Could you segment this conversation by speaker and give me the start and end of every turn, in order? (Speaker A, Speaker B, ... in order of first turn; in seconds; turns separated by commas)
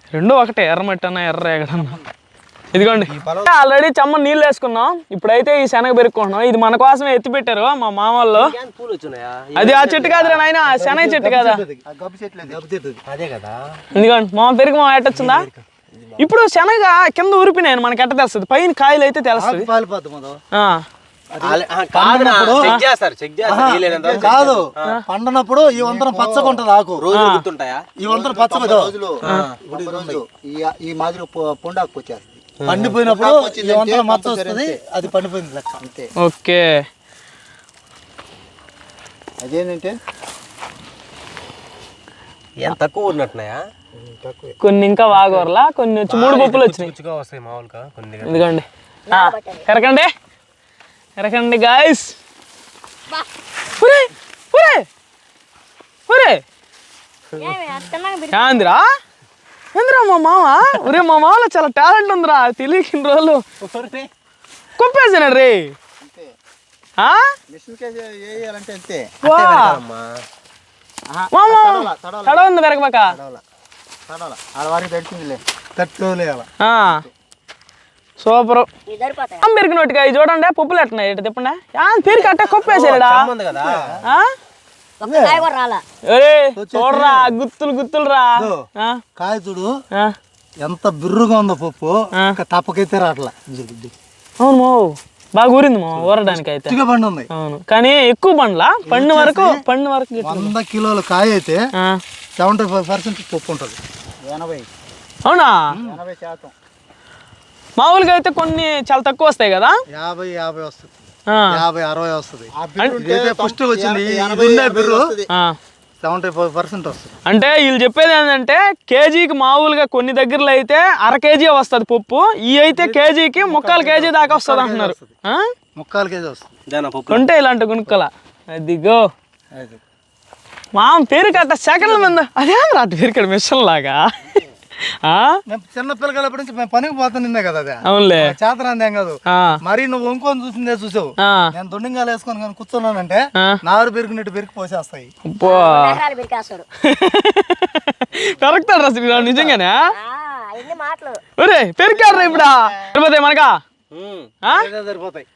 Speaker A: 0.1-2.0, Speaker A: 2.7-8.5, Speaker B: 2.8-3.2, Speaker C: 8.3-10.4, Speaker A: 9.6-11.6, Speaker B: 10.6-11.8, Speaker D: 11.9-12.6, Speaker B: 12.4-13.0, Speaker C: 13.1-13.6, Speaker A: 13.9-15.4, Speaker C: 15.1-16.2, Speaker A: 16.2-19.7, Speaker B: 19.3-20.4, Speaker A: 20.5-20.8, Speaker B: 21.3-22.7, Speaker C: 21.4-24.9, Speaker B: 23.4-27.1, Speaker D: 24.0-24.4, Speaker D: 25.7-26.6, Speaker C: 27.0-27.8, Speaker A: 27.1-27.4, Speaker B: 28.0-29.0, Speaker D: 28.1-34.8, Speaker C: 29.2-29.5, Speaker B: 29.6-30.2, Speaker C: 32.6-32.9, Speaker B: 32.6-35.8, Speaker D: 35.8-36.1, Speaker A: 36.2-36.7, Speaker D: 39.4-39.9, Speaker C: 42.6-43.6, Speaker D: 44.0-44.6, Speaker A: 44.6-46.9, Speaker C: 46.1-48.5, Speaker A: 48.2-50.1, Speaker E: 49.1-49.7, Speaker A: 51.2-52.1, Speaker A: 53.8-54.9, Speaker A: 56.1-56.4, Speaker E: 57.4-58.7, Speaker A: 58.3-58.9, Speaker A: 59.7-63.4, Speaker C: 63.6-64.1, Speaker A: 64.8-65.7, Speaker D: 66.0-66.3, Speaker A: 67.0-67.3, Speaker D: 67.5-69.1, Speaker A: 69.2-69.8, Speaker C: 69.2-70.1, Speaker D: 71.2-72.4, Speaker A: 71.3-73.1, Speaker B: 71.5-71.9, Speaker C: 73.1-73.4, Speaker D: 74.1-75.4, Speaker B: 75.8-76.5, Speaker A: 76.6-77.0, Speaker A: 78.2-78.7, Speaker E: 78.9-79.5, Speaker A: 79.4-83.3, Speaker C: 82.1-83.9, Speaker B: 83.6-84.0, Speaker E: 85.0-85.8, Speaker B: 85.0-85.5, Speaker A: 86.1-89.0, Speaker B: 86.5-87.3, Speaker B: 89.2-89.7, Speaker B: 90.6-93.9, Speaker A: 94.4-96.8, Speaker B: 96.2-97.3, Speaker A: 97.3-100.5, Speaker B: 98.8-99.6, Speaker B: 100.2-101.6, Speaker B: 102.4-103.8, Speaker D: 104.2-104.7, Speaker A: 105.2-105.7, Speaker B: 105.7-106.0, Speaker D: 105.8-106.5, Speaker A: 107.8-109.8, Speaker B: 109.9-110.9, Speaker A: 111.3-111.6, Speaker B: 111.5-115.1, Speaker D: 112.6-115.3, Speaker A: 115.3-115.5, Speaker B: 116.0-117.1, Speaker A: 117.2-125.4, Speaker B: 122.7-125.1, Speaker B: 125.8-126.5, Speaker C: 126.7-127.2, Speaker A: 127.1-129.1, Speaker B: 129.5-129.8, Speaker A: 130.7-134.1, Speaker B: 131.8-132.2, Speaker A: 135.0-135.4, Speaker B: 135.5-145.1, Speaker A: 137.8-138.3, Speaker A: 139.3-139.6, Speaker A: 141.2-141.5, Speaker A: 145.2-146.0, Speaker E: 145.4-146.6, Speaker A: 146.8-149.8, Speaker B: 149.2-149.5, Speaker E: 149.9-151.2, Speaker A: 151.4-153.6, Speaker E: 152.0-152.5, Speaker C: 153.9-154.3, Speaker B: 154.5-155.2